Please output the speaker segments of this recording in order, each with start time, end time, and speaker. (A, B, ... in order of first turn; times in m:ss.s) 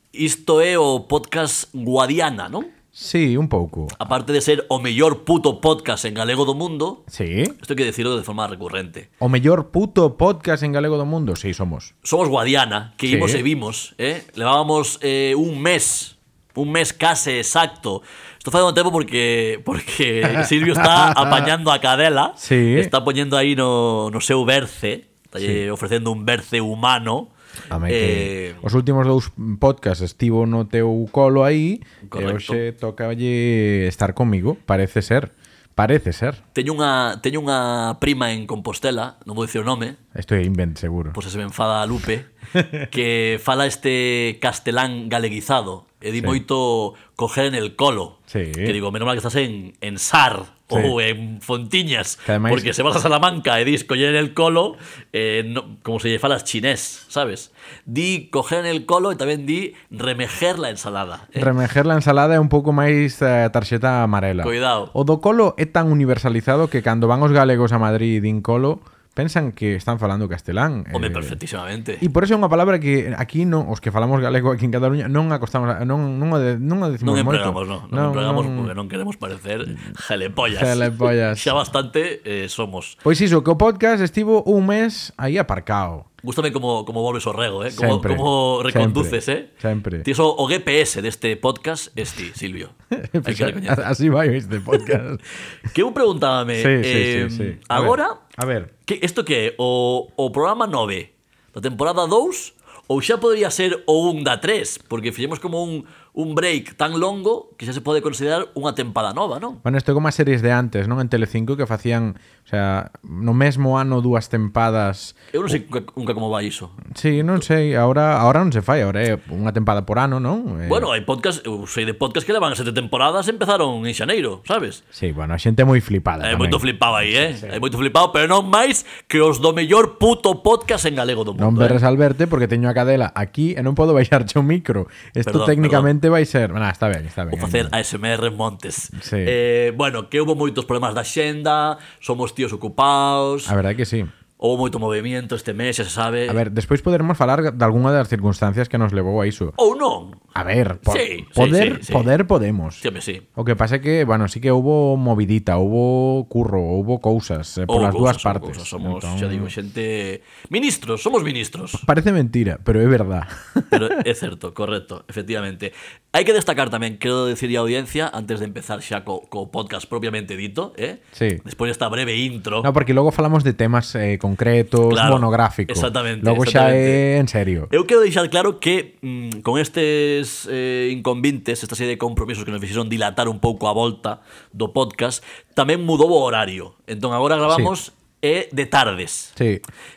0:00.1-0:02.7 A
0:02.9-0:04.0 B
0:04.0-0:07.0 A
0:07.1-0:07.6 B
0:07.6-0:09.1 A
0:09.2-0:11.9 B
0:12.0-0:27.3 A
0:13.0-0:13.4 B
0:20.3-0:21.5 B
0:22.4-0:22.9 B
0:27.7-0:36.4 B
0:27.9-0:28.6 A
0:32.0-0:32.6 A
0:36.6-0:40.0 A
0:40.2-0:41.2 B
0:41.1-0:42.3 A
0:42.6-0:42.9 B
0:42.9-1:01.5 A
0:48.3-0:48.8 B
0:52.3-0:52.7 B
1:01.4-1:11.4 B
1:04.4-1:04.9 A
1:10.9-1:12.1 A
1:12.0-1:18.7 B
1:17.0-1:23.0 A
1:20.5-1:21.6 B
1:23.0-1:26.1 B
1:26.2-1:29.5 A
1:27.7-1:30.1 B
1:30.0-1:33.9 A
1:33.0-1:35.2 B
1:35.7-1:38.2 A
1:36.6-1:38.7 B
1:38.8-1:49.6 A
1:49.6-1:55.2 B
1:55.3-1:56.8 A
1:56.9-2:00.9 B
2:00.6-2:04.8 A
2:04.9-2:07.6 B
2:06.2-2:11.8 A
2:11.4-2:17.7 B
2:15.2-2:15.9 A
2:17.3-2:23.6 A
2:18.9-2:19.4 B
2:23.5-2:24.1 B
2:24.4-2:26.4 A
2:26.3-2:29.6 B
2:29.6-2:30.2 A
2:30.4-2:32.8 B
2:30.8-2:32.1 A
2:32.8-2:33.2 A
2:33.4-2:39.5 B
2:37.7-2:41.8 A
2:41.8-2:44.0 B
2:43.7-2:52.7 A
2:51.2-2:51.4 B
2:52.6-2:57.7 B
2:54.9-2:57.0 A
2:57.7-3:09.3 A
3:09.4-3:09.6 B